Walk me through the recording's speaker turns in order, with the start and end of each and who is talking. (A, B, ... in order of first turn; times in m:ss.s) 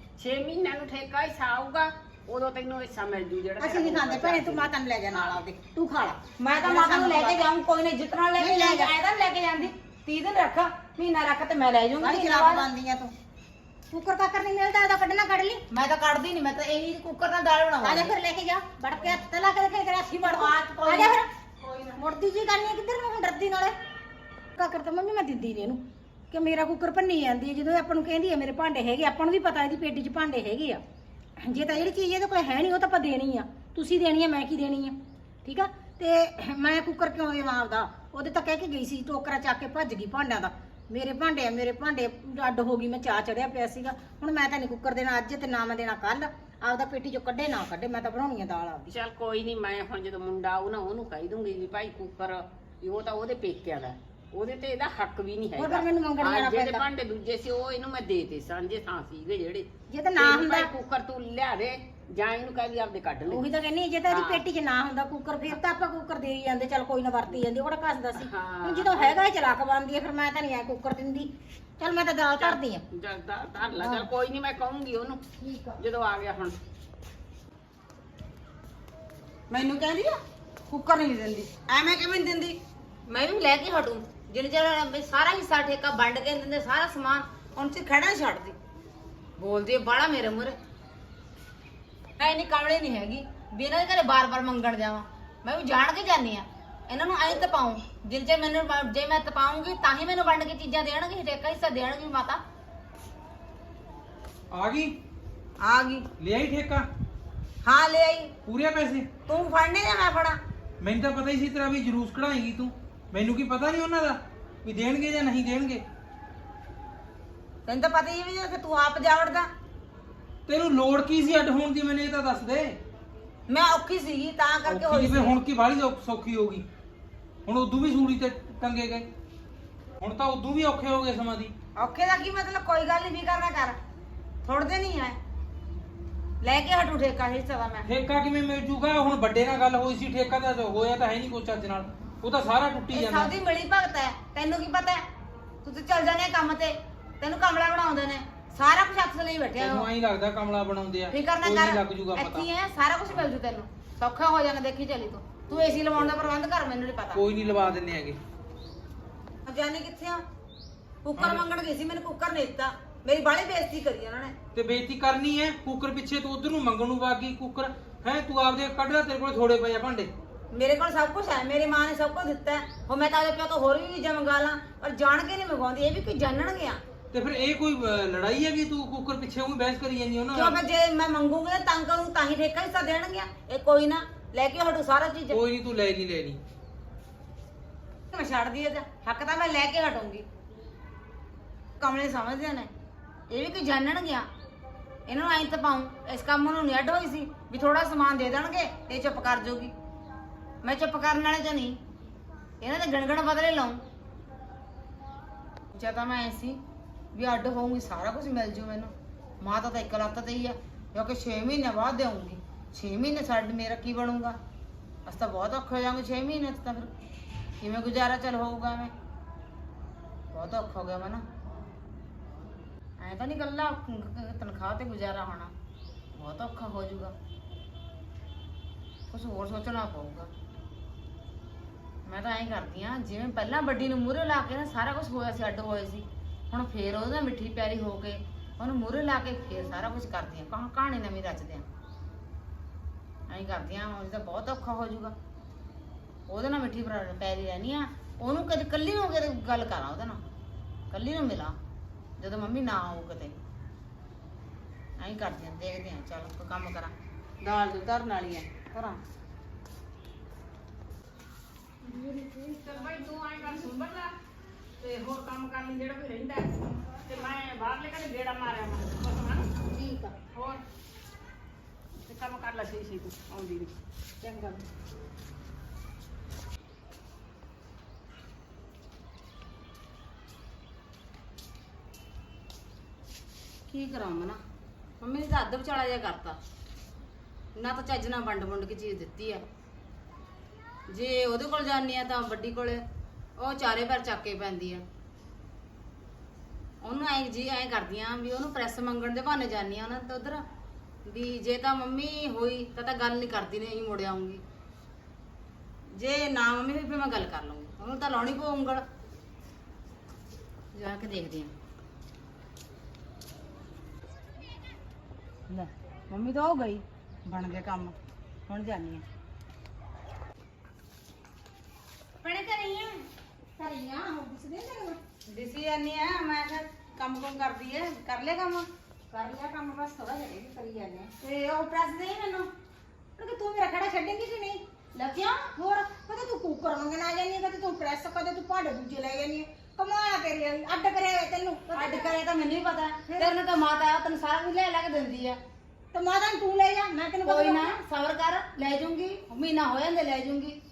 0:00.2-0:05.3 A
0:03.6-0:07.4 B
0:06.4-0:12.6 C
0:08.4-0:08.9 B
0:12.0-0:13.1 B
0:13.9-0:15.6 B
0:15.7-0:18.1 C
0:17.8-0:21.2 B
0:20.2-0:22.0 C
0:22.0-0:23.8 B
0:24.6-0:30.8 B
0:31.4-0:48.9 B
0:48.9-1:03.4 A
0:55.6-0:56.8 B
0:59.9-1:00.7 B
1:03.3-1:12.8 B
1:04.1-1:04.4 A
1:08.2-1:09.2 A
1:12.4-1:15.2 A
1:13.8-1:14.0 B
1:15.4-1:15.8 B
1:15.8-1:16.6 A
1:19.5-1:28.6 C
1:29.4-1:30.6 C
1:32.2-1:42.4 C
1:44.5-1:44.9 D
1:45.6-1:46.1 C
1:46.2-1:46.8 D
1:47.6-1:48.3 C
1:48.4-1:49.1 D
1:49.2-1:50.4 C
1:50.8-1:55.8 D
1:57.7-1:59.5 C
2:00.5-2:02.8 D
2:03.5-2:05.4 C
2:04.7-2:06.6 D
2:07.4-2:09.0 D
2:10.0-2:11.5 D
2:11.8-2:13.8 C
2:14.4-2:15.2 C
2:16.4-2:17.9 C
2:17.8-2:23.3 D
2:22.9-2:25.0 C
2:25.6-2:29.9 C
2:29.6-2:32.4 D
2:31.1-2:37.2 C
2:37.1-2:38.2 D
2:39.5-2:40.2 C
2:41.0-2:44.3 C
2:44.5-2:50.1 D
2:50.5-2:56.8 C
2:57.1-3:00.6 D
3:00.3-3:05.4 C
3:05.3-3:06.4 D
3:08.1-3:10.2 C
3:11.8-3:12.7 C
3:13.3-3:14.2 C
3:15.1-3:19.7 C
3:20.6-3:21.8 C
3:22.6-3:23.8 C
3:25.7-3:26.6 C
3:27.1-3:34.4 C
3:35.0-3:36.9 C
3:37.6-3:38.9 C
3:40.3-3:41.2 C
3:43.0-3:45.5 C
3:46.1-3:47.1 C
3:49.1-3:50.3 C
3:52.0-4:01.6 C
4:03.3-4:05.1 C
4:06.3-4:10.2 C
4:10.9-4:11.6 C
4:12.2-4:13.4 C
4:15.0-4:19.0 C
4:21.8-4:22.9 B
4:22.5-4:24.1 A
4:24.8-4:29.5 A
4:29.7-4:30.1 B
4:30.3-4:30.6 A
4:32.0-4:33.7 A
4:34.2-4:34.6 B
4:43.7-4:44.4 C
4:45.0-4:46.4 C
4:47.6-4:49.4 C
4:50.9-4:52.8 C
4:53.4-4:54.8 C
4:56.8-5:00.4 C
5:01.0-5:04.4 C
5:05.9-5:08.8 C
5:10.7-5:11.5 C
5:15.5-5:17.9 C
5:18.5-5:19.0 C
5:22.2-5:23.0 B
5:23.6-5:25.0 B
5:25.3-5:28.7 C
5:29.1-5:31.1 B
5:31.2-5:32.5 C
5:33.2-5:34.6 B
5:34.9-5:35.5 C
5:35.5-5:42.1 B
5:41.7-5:45.4 C
5:45.9-5:47.8 B
5:47.2-5:50.6 C